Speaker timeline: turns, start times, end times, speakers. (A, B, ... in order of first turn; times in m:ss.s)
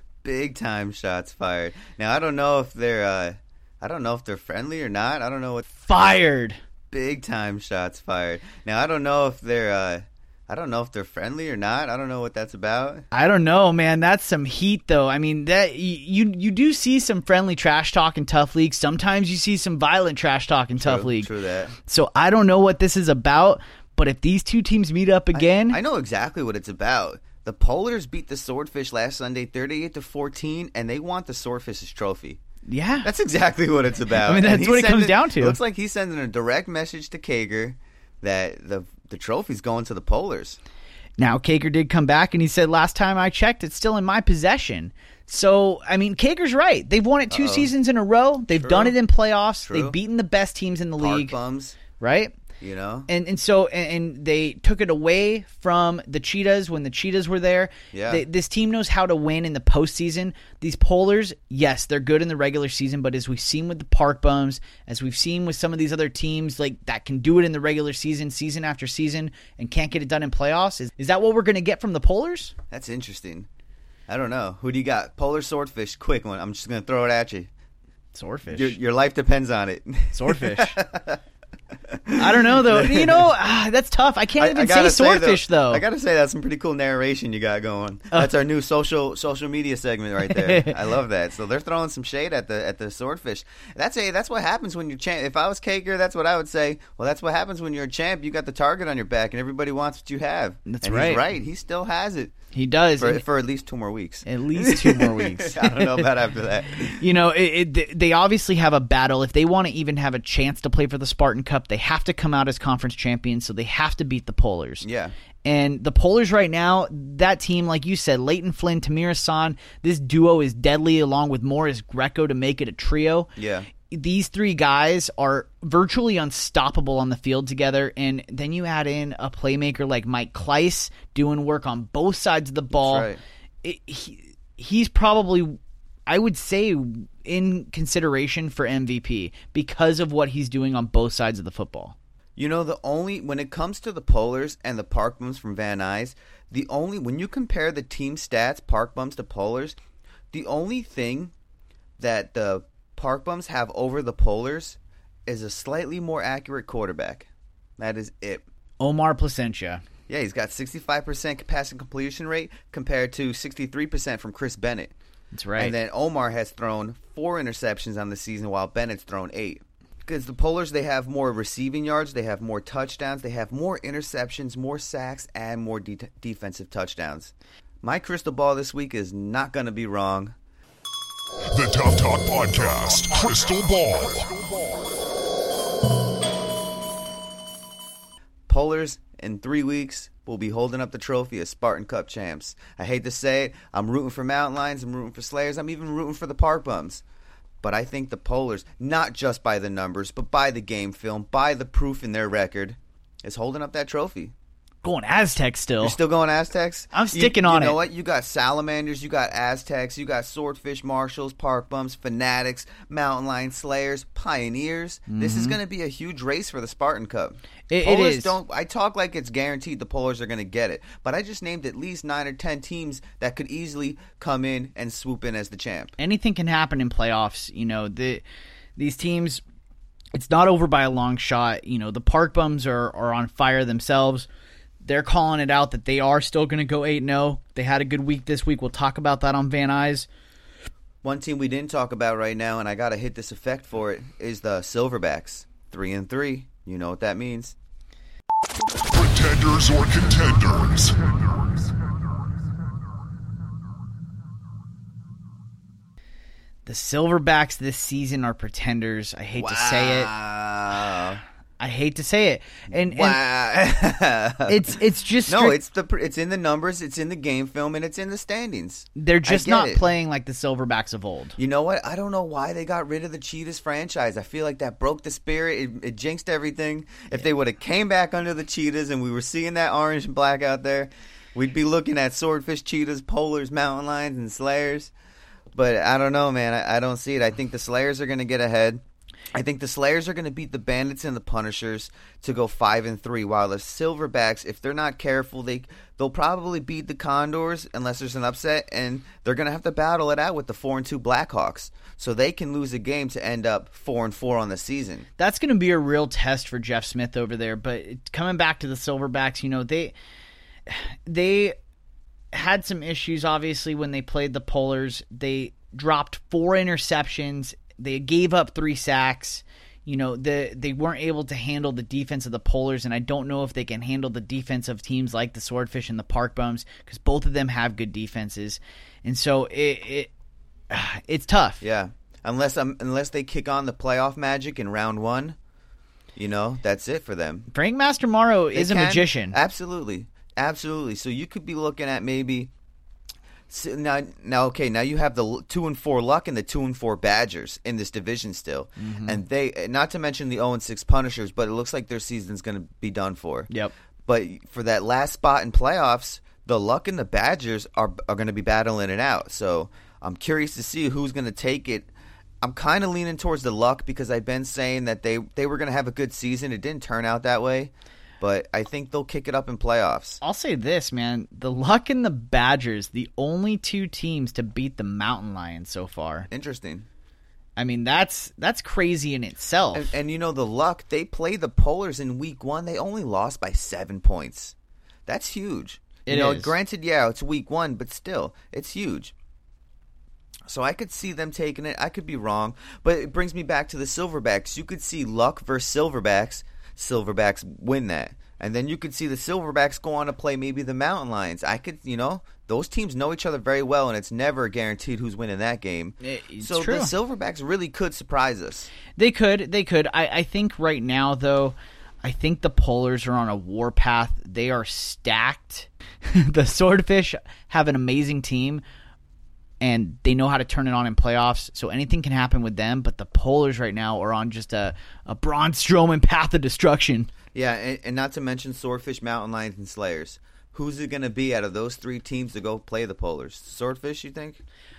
0:00.2-0:05.8 A
0:05.8-0:06.6 B
0:06.9-0:13.0 A
0:13.1-0:21.3 B
0:20.8-0:21.7 A
0:21.8-0:25.8 B
0:25.3-0:32.4 A
0:32.6-0:33.1 B
0:33.0-0:40.6 A
0:34.2-0:35.6 B
0:41.2-0:51.3 B
0:47.3-0:47.7 A
0:48.5-0:49.0 A
0:49.6-0:50.0 A
0:51.0-0:51.8 A
0:52.0-0:52.4 B
0:52.6-0:53.1 A
0:53.1-1:12.5 B
0:57.9-0:58.2 A
1:12.7-1:13.5 A
1:14.1-1:17.5 A
1:18.1-1:18.8 B
1:18.5-1:21.2 A
1:20.1-1:20.8 B
1:21.9-1:23.3 A
1:22.2-1:25.8 B
1:24.4-1:42.3 A
1:30.3-1:30.8 B
1:40.6-1:41.2 B
1:42.5-1:43.2 B
1:43.0-1:47.1 A
1:44.2-1:46.1 B
1:46.9-1:54.8 B
1:54.8-1:55.1 A
1:55.4-2:03.3 B
2:03.4-2:03.7 A
2:03.9-2:13.1 B
2:12.7-2:13.2 A
2:13.6-2:21.9 B
2:22.4-2:29.8 A
2:30.3-2:31.3 A
2:32.0-2:38.4 A
2:38.8-2:39.8 B
2:40.1-2:44.9 A
2:45.3-2:45.7 B
2:45.6-3:00.3 A
3:01.5-3:04.5 C
3:08.5-3:17.0 A
3:17.6-3:24.3 A
3:24.8-3:26.0 B
3:25.8-3:45.9 A
3:26.9-3:27.8 B
3:35.1-3:35.6 B
3:37.7-3:38.4 B
3:46.0-3:48.2 B
3:48.8-3:49.4 B
3:50.1-3:54.3 B
3:54.8-4:00.1 B
4:01.0-4:07.5 A
4:08.9-4:11.1 C
4:16.6-4:20.1 B
4:19.4-4:21.2 A
4:21.6-4:23.2 B
4:22.8-4:24.8 A
4:24.5-4:25.6 B
4:25.3-4:29.8 A
4:29.0-4:31.4 B
4:31.4-4:44.9 A
4:45.5-4:48.8 A
4:49.3-5:05.1 A
5:05.2-5:09.9 B
5:10.7-5:11.6 B
5:12.3-5:30.1 B
5:30.7-5:31.6 B
5:31.6-5:35.4 A
5:36.2-5:37.5 A
5:37.5-5:39.4 B
5:38.5-5:42.5 A
5:43.5-5:53.5 A
5:48.8-5:49.2 B
5:54.0-6:01.9 A
6:02.4-6:10.2 A
6:10.2-6:16.3 B
6:16.3-6:16.9 A
6:17.6-6:19.9 B
6:19.7-6:24.5 A
6:25.1-6:29.1 A
6:26.1-6:26.5 B
6:30.5-6:48.7 A
6:46.0-6:46.9 B
6:49.0-6:58.6 B
6:59.6-7:07.1 B
7:07.3-7:14.4 A